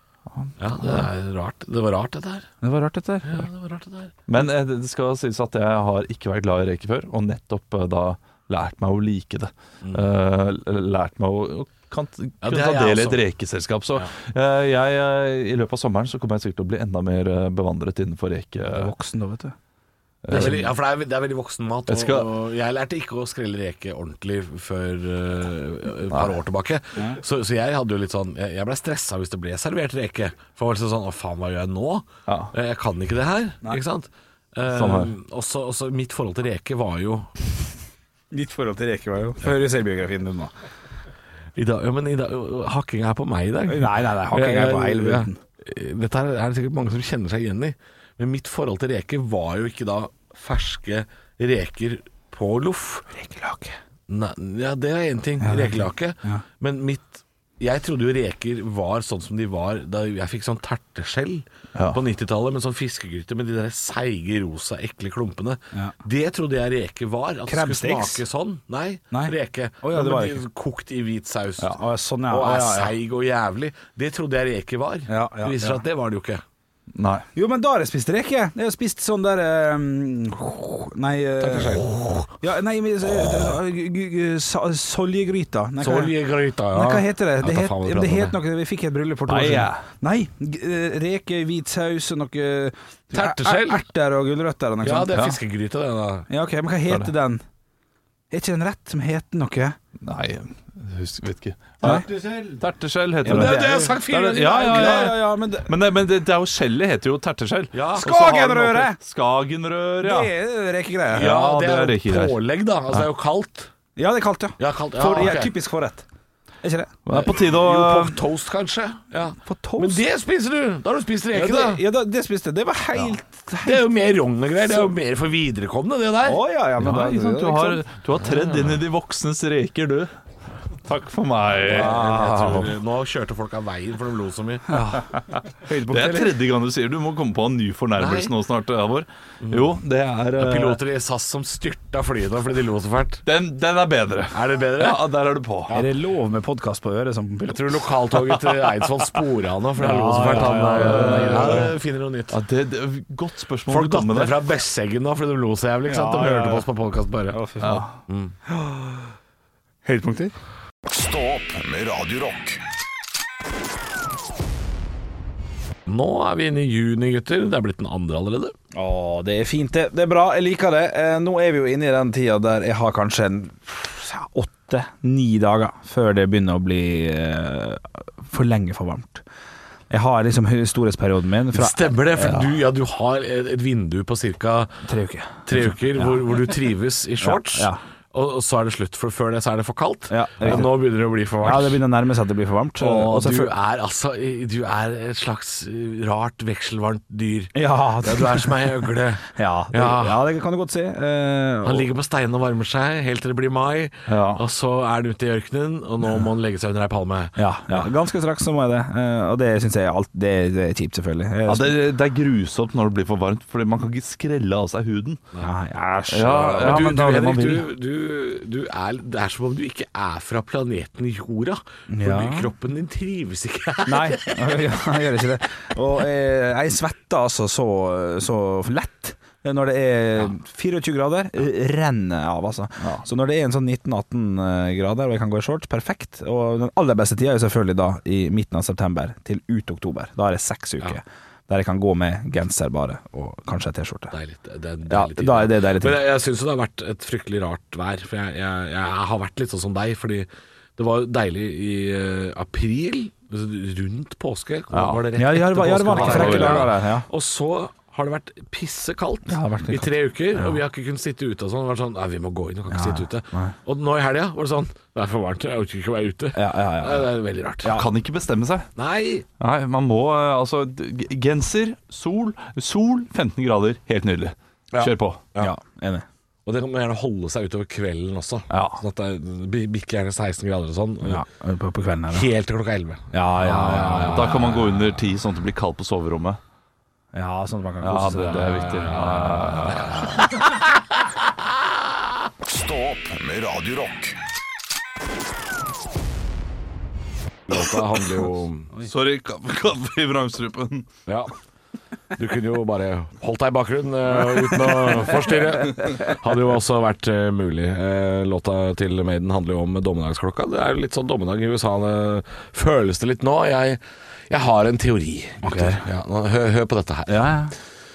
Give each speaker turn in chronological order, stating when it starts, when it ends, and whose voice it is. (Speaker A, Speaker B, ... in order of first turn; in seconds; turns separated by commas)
Speaker A: 0.3-1.0, Speaker B: 0.6-2.5, Speaker C: 2.6-3.5, Speaker B: 3.2-4.1, Speaker A: 4.3-18.9, Speaker B: 12.4-13.2, Speaker C: 18.7-19.5, Speaker A: 20.2-20.7, Speaker B: 20.3-37.3, Speaker C: 20.3-20.6, Speaker A: 21.9-22.3, Speaker A: 34.6-35.1, Speaker C: 38.3-40.5, Speaker B: 41.5-53.1, Speaker C: 43.7-45.4, Speaker C: 53.1-53.8, Speaker B: 54.1-71.8, Speaker C: 55.4-56.4, Speaker A: 61.7-62.0, Speaker C: 67.5-68.2, Speaker C: 69.1-70.4, Speaker C: 71.6-72.9, Speaker B: 72.3-76.4, Speaker C: 75.1-75.8, Speaker A: 76.9-77.2, Speaker C: 77.3-81.8, Speaker B: 81.4-82.3, Speaker C: 82.4-86.1, Speaker B: 85.8-88.4, Speaker C: 86.7-95.2, Speaker A: 89.3-89.8, Speaker B: 93.1-93.8, Speaker B: 94.8-96.3, Speaker C: 96.3-97.4, Speaker C: 98.3-99.8, Speaker A: 100.0-110.3, Speaker C: 101.8-102.1, Speaker B: 101.8-102.6, Speaker B: 103.2-105.1, Speaker C: 103.2-105.7, Speaker B: 107.7-108.2, Speaker C: 108.0-109.0, Speaker C: 110.0-111.3, Speaker B: 111.1-113.7, Speaker A: 111.1-112.4, Speaker C: 114.0-116.0, Speaker B: 114.6-115.5, Speaker C: 116.6-116.9, Speaker A: 117.1-118.2, Speaker B: 117.1-121.8, Speaker C: 119.4-120.0, Speaker C: 121.3-123.9, Speaker B: 123.6-126.4, Speaker C: 126.2-127.8, Speaker A: 126.8-130.1, Speaker B: 128.2-128.8, Speaker A: 130.8-132.6, Speaker B: 131.6-134.8, Speaker C: 131.7-132.7, Speaker C: 134.8-135.1, Speaker C: 135.6-136.4, Speaker A: 135.7-140.8, Speaker B: 137.9-138.3, Speaker B: 139.4-139.7, Speaker B: 140.4-143.2, Speaker A: 143.2-145.7, Speaker B: 144.3-145.1, Speaker C: 145.7-147.9, Speaker B: 147.5-152.4, Speaker C: 149.8-151.7, Speaker A: 150.2-151.7, Speaker A: 152.3-154.4, Speaker B: 153.7-157.4, Speaker C: 155.9-156.7, Speaker C: 157.3-157.9, Speaker A: 157.6-157.9, Speaker B: 158.1-158.3, Speaker C: 158.5-159.0, Speaker C: 159.8-160.3, Speaker D: 160.9-162.6, Speaker B: 165.9-168.5, Speaker C: 168.7-179.2, Speaker C: 179.9-182.4, Speaker B: 181.5-184.8, Speaker C: 184.8-186.3, Speaker B: 185.4-191.8, Speaker C: 187.2-187.8, Speaker C: 190.1-190.7, Speaker C: 191.4-193.5, Speaker B: 192.8-200.2, Speaker C: 197.5-201.8, Speaker B: 201.6-207.9, Speaker A: 204.1-204.4, Speaker C: 207.4-211.8, Speaker A: 211.5-215.2, Speaker C: 215.4-216.9, Speaker A: 216.1-217.7, Speaker B: 216.5-224.4, Speaker C: 221.9-222.5, Speaker C: 223.8-244.1, Speaker B: 244.1-267.7, Speaker C: 244.9-246.0, Speaker A: 254.7-255.1, Speaker C: 255.2-257.1, Speaker A: 255.6-256.7, Speaker C: 259.3-260.6, Speaker C: 262.7-263.5, Speaker C: 266.3-267.1, Speaker C: 267.6-267.9, Speaker A: 267.7-268.7, Speaker B: 268.8-269.2, Speaker A: 269.4-275.2, Speaker B: 274.7-275.5, Speaker C: 275.4-276.1, Speaker B: 276.4-281.2, Speaker A: 278.5-278.8, Speaker C: 281.0-282.3, Speaker B: 282.1-284.8, Speaker C: 283.1-284.3, Speaker A: 284.1-286.4, Speaker C: 287.1-288.9, Speaker A: 287.8-290.4, Speaker B: 288.6-290.6, Speaker D: 292.4-294.2, Speaker B: 297.5-298.7, Speaker A: 298.8-300.9, Speaker B: 301.1-301.3, Speaker B: 302.1-317.3, Speaker C: 315.4-315.8, Speaker C: 317.1-317.5